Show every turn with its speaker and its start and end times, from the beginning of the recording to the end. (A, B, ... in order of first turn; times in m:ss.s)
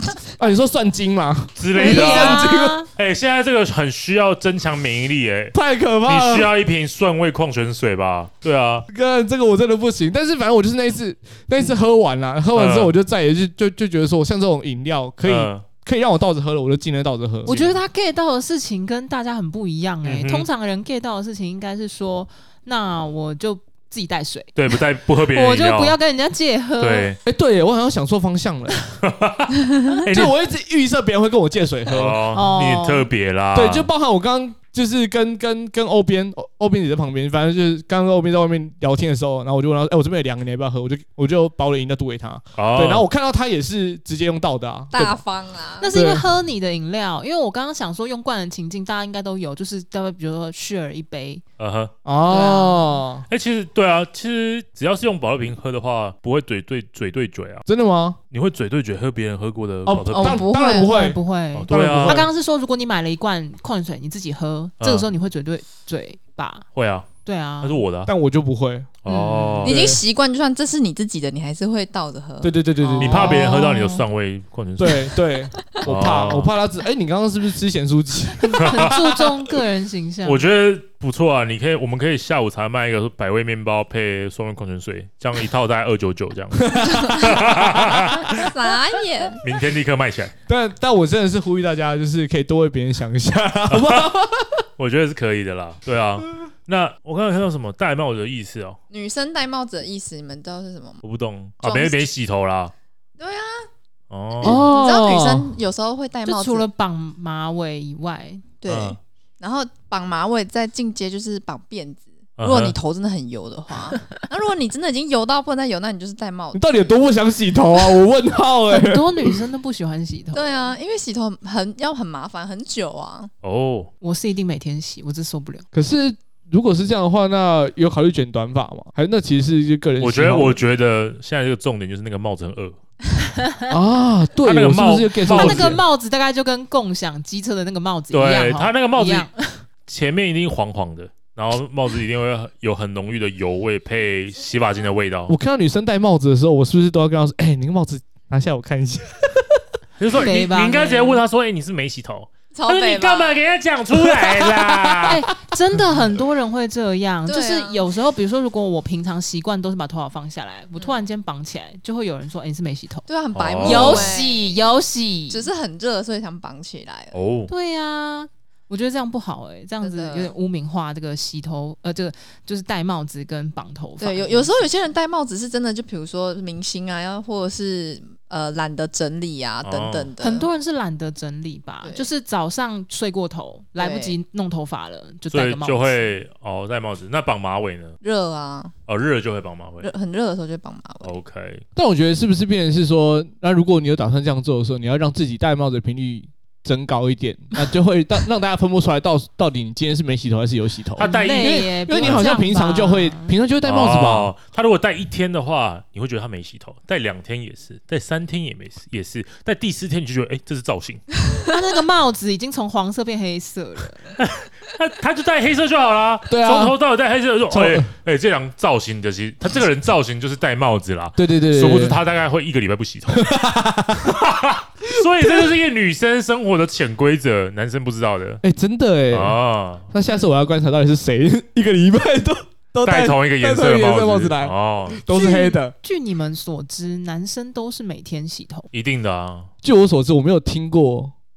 0:00.4-0:02.8 A
0:01.6-0:08.9 B
0:01.8-0:02.9 C
0:05.5-0:06.5 A
0:08.9-0:17.6 A
0:12.5-0:13.0 B
0:15.2-0:15.7 B
0:17.5-0:27.1 C
0:17.5-0:17.8 B
0:20.0-0:20.5 B
0:24.6-0:26.0 B
0:26.8-0:27.2 B
0:27.2-0:28.8 A
0:29.0-0:30.4 B
0:30.1-0:32.2 A
0:31.9-0:33.9 B
0:32.3-0:33.1 C
0:33.5-0:45.2 A
0:42.6-0:43.0 B
0:44.9-0:45.9 D
0:45.8-0:51.4 C
0:45.9-0:46.2 A
0:51.6-0:51.9 B
0:52.0-0:53.3 A
0:52.3-0:53.0 C
0:53.3-0:57.6 B
0:57.7-0:58.2 A
0:58.3-1:00.4 B
0:59.9-1:01.2 A
1:00.2-1:00.9 D
1:00.2-1:06.7 C
1:01.6-1:02.2 B
1:01.7-1:02.3 A
1:04.8-1:05.1 B
1:06.7-1:07.1 B
1:07.2-1:07.8 C
1:07.6-1:08.1 B
1:08.1-1:08.9 A
1:09.0-1:09.9 B
1:09.1-1:09.6 C
1:09.6-1:10.0 A
1:09.6-1:12.6 D
1:12.4-1:13.5 A
1:12.8-1:13.2 C
1:13.0-1:15.1 B
1:13.1-1:14.0 D
1:14.8-1:19.3 A
1:15.8-1:16.5 B
1:18.4-1:20.5 C
1:18.6-1:18.9 B
1:20.2-1:28.5 B
1:26.6-1:28.4 A
1:26.9-1:27.4 D
1:28.2-1:29.4 D
1:29.4-1:30.3 B
1:30.5-1:34.6 A
1:33.7-1:34.2 B
1:34.8-1:38.8 B
1:38.9-1:41.0 D
1:41.0-1:42.7 B
1:41.6-1:42.1 D
1:43.2-1:43.7 D
1:44.1-1:44.6 B
1:44.4-1:45.6 A
1:44.4-1:46.7 D
1:46.2-1:48.5 C
1:48.6-1:56.6 D
1:48.7-1:49.0 B
1:52.4-1:52.8 B
1:56.5-1:59.4 A
1:58.7-2:00.8 C
2:00.3-2:03.3 D
2:03.4-2:03.9 B
2:04.0-2:05.7 C
2:05.7-2:10.6 A
2:10.0-2:12.8 B
2:13.7-2:15.8 A
2:14.4-2:15.8 B
2:15.3-2:19.6 C
2:18.1-2:19.3 B
2:19.9-2:25.4 B
2:25.3-2:29.6 A
2:30.0-2:35.2 B
2:30.1-2:31.2 C
2:32.5-2:33.4 D
2:34.0-2:35.2 A
2:35.0-2:43.1 C
2:35.7-2:36.0 A
2:37.3-2:37.9 D
2:43.1-2:44.6 D
2:43.3-2:44.1 B
2:43.6-2:45.5 C
2:45.3-2:47.2 D
2:47.1-2:47.5 B
2:47.5-2:54.7 C
2:49.8-2:50.4 D
2:54.0-3:00.5 D
2:59.6-3:00.1 B
3:00.2-3:06.1 C
3:01.8-3:02.1 D
3:03.8-3:04.2 D
3:05.3-3:08.0 B
3:08.0-3:08.7 D
3:08.9-3:09.9 B
3:09.8-3:11.1 D
3:11.0-3:11.6 B
3:11.8-3:24.3 A
3:21.0-3:22.3 B
3:21.0-3:23.3 C
3:23.6-3:31.0 B
3:31.5-3:34.2 C
3:34.2-3:43.3 B
3:36.3-3:36.8 A
3:37.5-3:37.9 A
3:41.2-3:42.0 A
3:43.1-3:44.2 A
3:44.0-3:48.4 B
3:45.0-3:45.6 A
3:48.4-3:49.4 A
3:49.1-3:49.9 B
3:49.9-3:55.8 A
3:52.8-3:55.0 B
3:55.1-3:58.7 C
3:58.7-3:59.5 B
3:59.6-4:01.1 A